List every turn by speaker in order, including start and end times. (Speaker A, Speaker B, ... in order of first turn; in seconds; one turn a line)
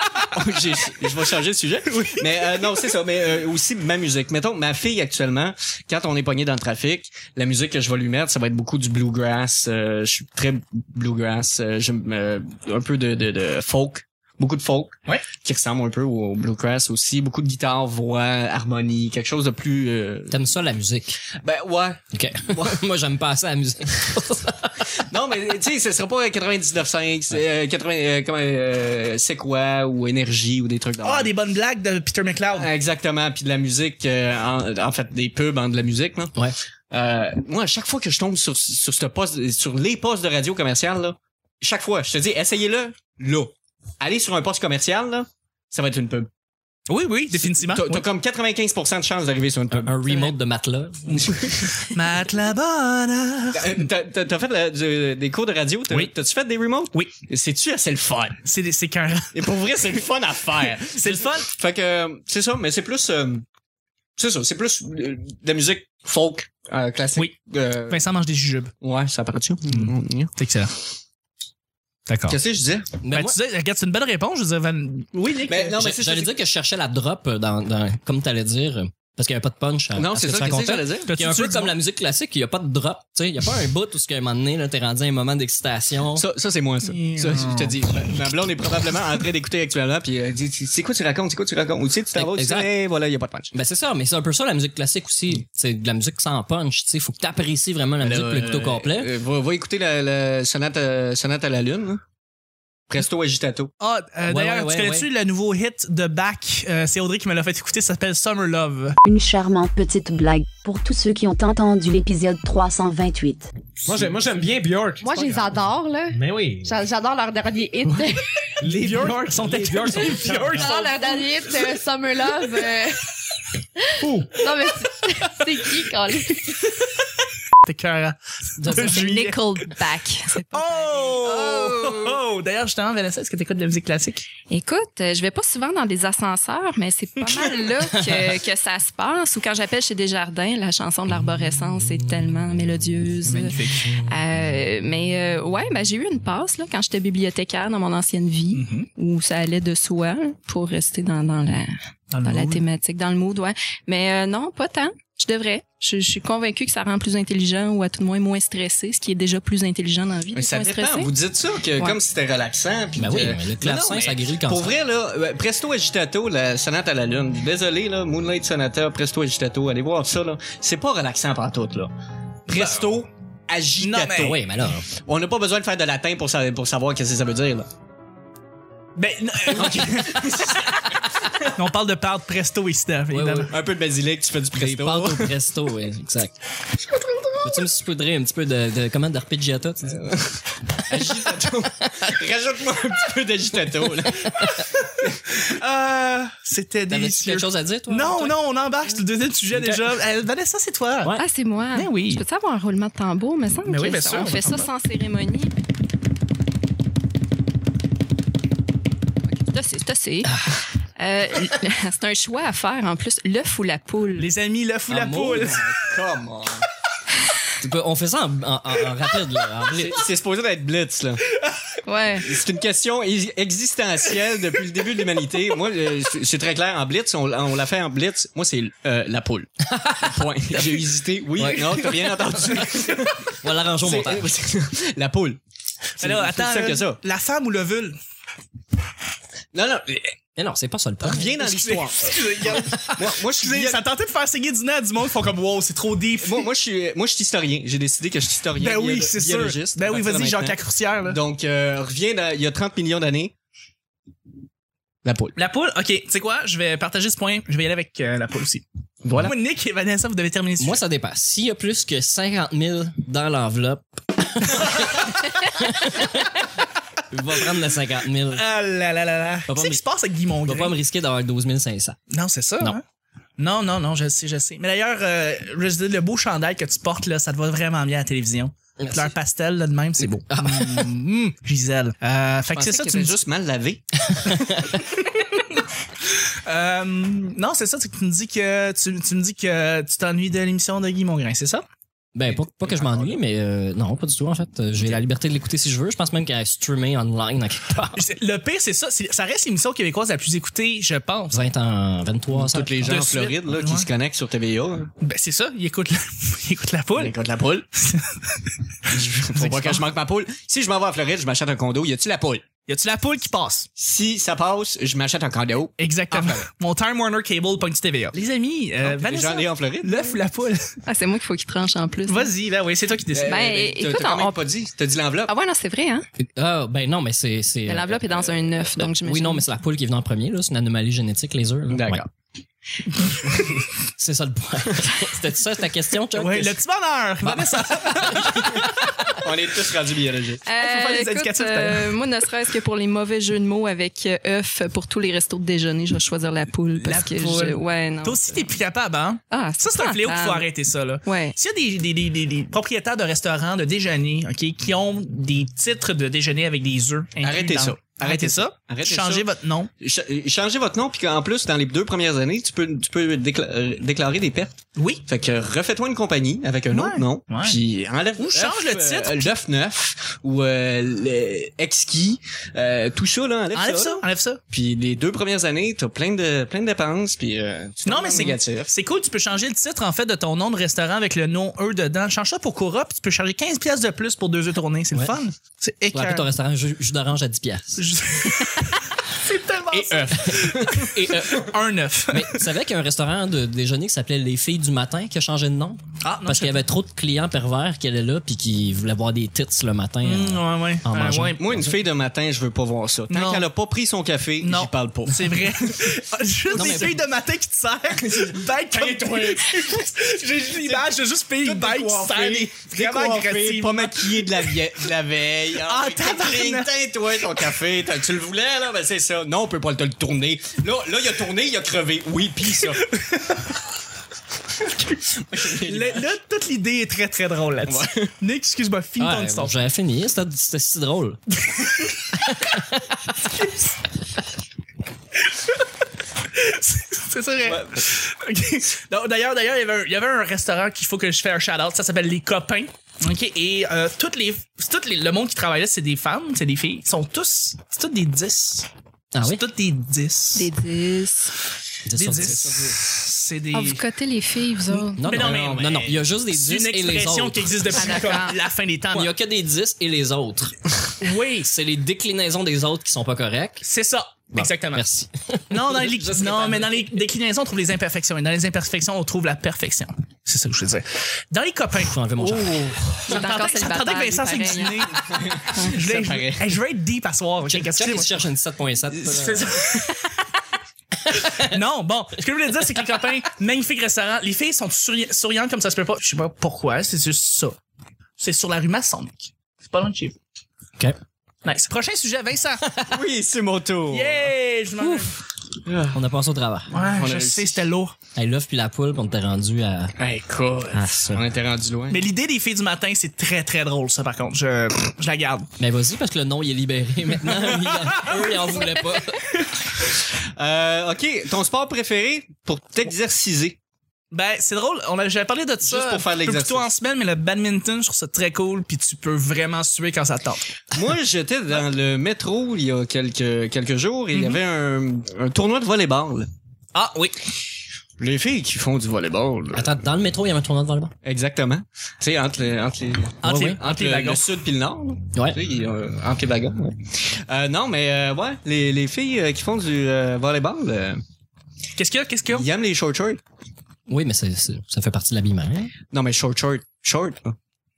Speaker A: 0.2-20.4
Speaker B: 1.9-2.7
Speaker C: 20.3-21.2
Speaker A: 21.3-22.8
Speaker C: 22.1-24.9
Speaker A: 25.0-31.3
Speaker B: 31.0-32.7
Speaker A: 32.6-36.4
Speaker A: 36.9-46.3
Speaker B: 46.9-48.1
Speaker A: 47.5-50.1
Speaker C: 49.7-51.3
Speaker B: 51.1-53.9
Speaker A: 51.3-51.8
Speaker A: 53.5-58.4
Speaker B: 58.4-59.5
Speaker A: 59.3-63.5
Speaker B: 60.8-61.5
Speaker A: 64.2-68.0
Speaker B: 67.9-68.7
Speaker A: 68.8-70.3
Speaker B: 69.7-70.7
Speaker B: 72.1-72.4
Speaker A: 72.3-73.0
Speaker C: 73.0-73.4
Speaker B: 73.1-75.8
Speaker A: 75.5-76.3
Speaker C: 75.8-86.2
Speaker A: 80.0-81.1
Speaker B: 81.1-81.8
Speaker A: 86.2-93.5
Speaker B: 86.8-87.8
Speaker C: 92.1-92.7
Speaker C: 93.5-99.1
Speaker A: 98.0-102.0
Speaker A: 102.9-103.7
Speaker B: 103.8-109.0
Speaker C: 104.3-105.1
Speaker D: 109.0-113.5
Speaker E: 113.8-116.7
Speaker F: 115.0-119.0
Speaker E: 118.6-120.8
Speaker B: 118.7-121.2
Speaker F: 120.0-123.0
Speaker F: 124.0-126.6
Speaker E: 124.0-124.3
Speaker B: 127.6-129.7
Speaker C: 128.6-129.1
Speaker G: 128.7-131.4
Speaker B: 130.4-134.3
Speaker A: 131.2-131.7
Speaker G: 134.5-161.1
Speaker B: 137.2-137.6
Speaker C: 137.9-138.3
Speaker B: 143.3-143.9
Speaker B: 148.5-148.9
Speaker B: 152.1-152.6
Speaker A: 160.3-171.9
Speaker C: 163.0-164.8
Speaker B: 172.5-172.9
Speaker A: 172.5-177.7
Speaker B: 173.8-174.4
Speaker C: 174.2-174.9
Speaker B: 179.0-180.3
Speaker A: 179.5-181.5
Speaker B: 181.6-183.5
Speaker C: 183.1-183.5
Speaker A: 183.5-185.3
Speaker C: 184.5-186.3
Speaker C: 187.4-190.0
Speaker A: 189.8-195.1
Speaker B: 195.3-201.1
Speaker C: 196.9-198.4
Speaker C: 199.5-199.9
Speaker G: 201.2-205.5
Speaker B: 201.8-202.2
Speaker B: 203.7-204.7
Speaker G: 209.4-210.5
Speaker C: 210.2-210.6
Speaker G: 211.0-214.3
Speaker B: 214.2-215.7
Speaker C: 214.9-215.6
Speaker A: 215.4-216.7
Speaker C: 217.6-219.9
Speaker A: 219.7-221.2
Speaker G: 221.9-222.3
Speaker A: 222.2-235.4
Speaker C: 229.7-230.2
Speaker C: 231.4-232.6
Speaker C: 233.4-234.3
Speaker B: 236.0-238.0
Speaker A: 236.0-237.0
Speaker A: 239.5-240.2
Speaker C: 240.4-241.4
Speaker A: 241.0-243.8
Speaker B: 241.4-246.5
Speaker A: 246.2-253.3
Speaker B: 248.6-251.2
Speaker A: 255.1-255.3
Speaker B: 255.3-258.6
Speaker A: 259.0-259.3
Speaker B: 259.2-260.8
Speaker C: 260.6-266.5
Speaker C: 267.1-268.4
Speaker B: 268.3-270.8
Speaker C: 269.5-269.8
Speaker C: 270.4-272.0
Speaker B: 272.1-272.8
Speaker B: 273.4-283.2
Speaker C: 278.8-279.1
Speaker C: 280.3-280.9
Speaker A: 282.5-284.0
Speaker C: 284.3-284.8
Speaker B: 286.5-291.6
Speaker C: 292.1-298.0
Speaker A: 292.3-293.2
Speaker B: 297.9-301.4
Speaker C: 301.3-303.0
Speaker A: 302.3-304.9
Speaker B: 302.8-303.9
Speaker B: 305.0-307.1
Speaker A: 306.9-307.7
Speaker B: 307.9-308.5
Speaker A: 308.9-312.4
Speaker B: 309.2-309.8
Speaker B: 312.7-313.7
Speaker A: 313.8-316.5
Speaker B: 315.8-320.8
Speaker A: 318.8-320.2
Speaker G: 320.9-322.3
Speaker B: 322.1-323.4
Speaker A: 323.1-325.3
Speaker G: 323.3-324.4
Speaker G: 325.3-326.1
Speaker C: 326.2-332.0
Speaker G: 327.7-329.4
Speaker A: 331.7-332.1
Speaker B: 333.1-333.4
Speaker C: 333.5-336.6
Speaker B: 336.1-339.1
Speaker A: 337.6-340.4
Speaker G: 340.5-348.5
Speaker B: 340.6-341.9
Speaker B: 346.8-359.7
Speaker G: 349.3-350.5
Speaker G: 351.0-351.4
Speaker A: 357.2-378.7
Speaker B: 364.8-365.1
Speaker B: 366.7-367.6
Speaker B: 368.2-369.4
Speaker B: 373.5-374.4
Speaker B: 377.9-386.3
Speaker C: 385.9-387.9
Speaker B: 387.8-392.4
Speaker A: 389.7-391.0
Speaker C: 390.9-391.5
Speaker C: 392.1-401.7
Speaker B: 396.0-396.6
Speaker B: 400.0-401.4
Speaker A: 401.4-405.9
Speaker B: 403.1-403.5
Speaker B: 404.4-414.6
Speaker A: 406.5-406.9
Speaker C: 406.5-407.0
Speaker A: 407.9-409.9
Speaker A: 410.6-422.9
Speaker B: 415.6-416.7
Speaker B: 422.6-423.4
Speaker A: 424.6-426.1
Speaker B: 425.6-429.6
Speaker A: 427.7-428.1
Speaker C: 429.0-431.2
Speaker C: 432.2-432.8
Speaker B: 433.4-433.7
Speaker B: 435.3-435.6
Speaker B: 436.3-448.7
Speaker A: 437.4-437.8
Speaker C: 449.1-449.4
Speaker B: 449.2-450.5
Speaker G: 450.4-451.3
Speaker C: 451.9-452.8
Speaker B: 451.9-453.8
Speaker A: 452.2-452.7
Speaker G: 453.5-455.0
Speaker B: 454.7-459.1
Speaker C: 454.9-458.1
Speaker A: 455.1-456.0
Speaker G: 457.7-458.4
Speaker C: 458.9-460.5
Speaker B: 461.0-461.5
Speaker C: 461.4-463.6
Speaker B: 463.6-464.9
Speaker C: 464.4-466.8
Speaker B: 465.5-472.0
Speaker C: 471.9-472.9
Speaker A: 472.2-473.0
Speaker G: 473.1-475.7
Speaker B: 473.1-478.2
Speaker A: 475.1-476.5
Speaker C: 477.5-479.6
Speaker A: 479.1-479.9
Speaker B: 479.4-479.9
Speaker C: 481.1-481.6
Speaker B: 481.1-487.6
Speaker B: 488.2-490.2
Speaker B: 491.4-492.7
Speaker A: 492.9-494.3
Speaker B: 493.9-495.2
Speaker C: 494.8-495.2
Speaker A: 495.6-496.0
Speaker C: 495.9-496.7
Speaker B: 496.7-497.9
Speaker A: 496.8-497.7
Speaker C: 498.1-499.9
Speaker A: 500.0-502.1
Speaker C: 500.7-501.2
Speaker B: 501.9-505.5
Speaker C: 505.6-509.4
Speaker B: 507.5-508.7
Speaker B: 509.2-509.6
Speaker A: 510.4-513.6
Speaker B: 514.1-520.4
Speaker A: 515.6-516.7
Speaker A: 520.7-526.3
Speaker B: 526.7-527.2
Speaker A: 528.0-529.7
Speaker C: 529.5-530.9
Speaker A: 531.0-541.0
Speaker B: 533.2-534.3
Speaker C: 533.2-533.6
Speaker B: 541.8-542.5
Speaker A: 542.3-543.2
Speaker C: 543.9-545.7
Speaker A: 545.9-547.4